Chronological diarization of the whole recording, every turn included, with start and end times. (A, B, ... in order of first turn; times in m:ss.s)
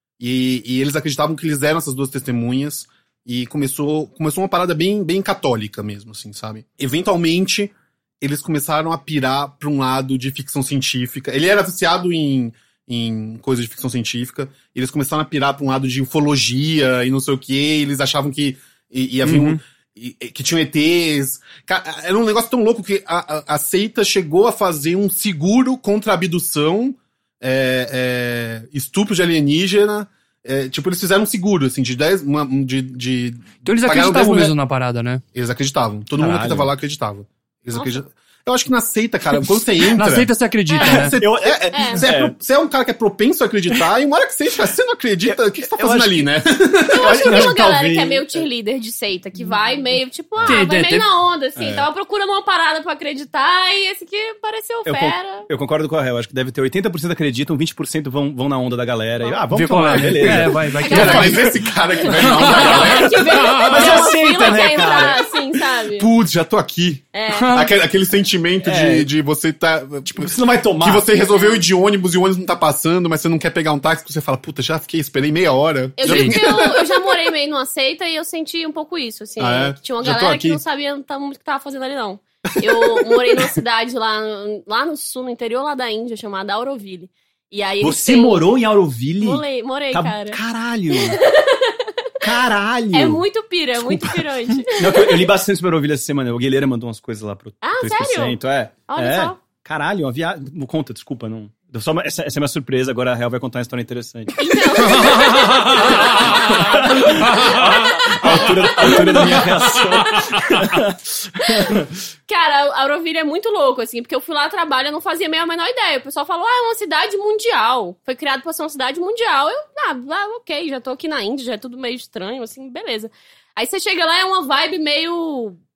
0:00.2-0:34.5 A
0:19.2-0:19.6 B
0:33.6-0:35.2 C
0:35.3-0:47.5 A
0:36.2-0:36.7 B
0:39.9-0:41.2 C
0:40.7-0:41.0 D
0:40.8-0:42.3 B
0:41.7-0:42.0 D
0:45.2-0:46.3 B
0:46.9-0:55.5 D
0:47.0-0:48.5 B
0:50.5-0:51.0 C
0:51.6-0:51.9 B
0:54.8-1:05.2 B
0:59.5-1:01.4 C
1:00.0-1:03.7 A
1:00.8-1:01.5 D
1:02.2-1:02.8 C
1:02.3-1:06.1 D
1:06.0-1:17.0 A
1:07.1-1:07.6 D
1:07.3-1:07.7 C
1:08.6-1:09.1 B
1:10.1-1:11.1 B
1:11.3-1:11.6 D
1:16.0-1:28.4 D
1:16.0-1:16.4 C
1:19.4-1:20.6 A
1:22.5-1:23.2 A
1:27.8-1:31.2 B
1:29.2-1:30.4 D
1:30.9-1:32.2 D
1:32.2-1:33.2 B
1:32.9-1:35.2 D
1:33.9-1:51.9 B
1:37.6-1:38.4 D
1:38.9-1:39.4 D
1:44.4-1:50.3 D
1:51.4-1:51.7 D
1:52.3-2:05.6 D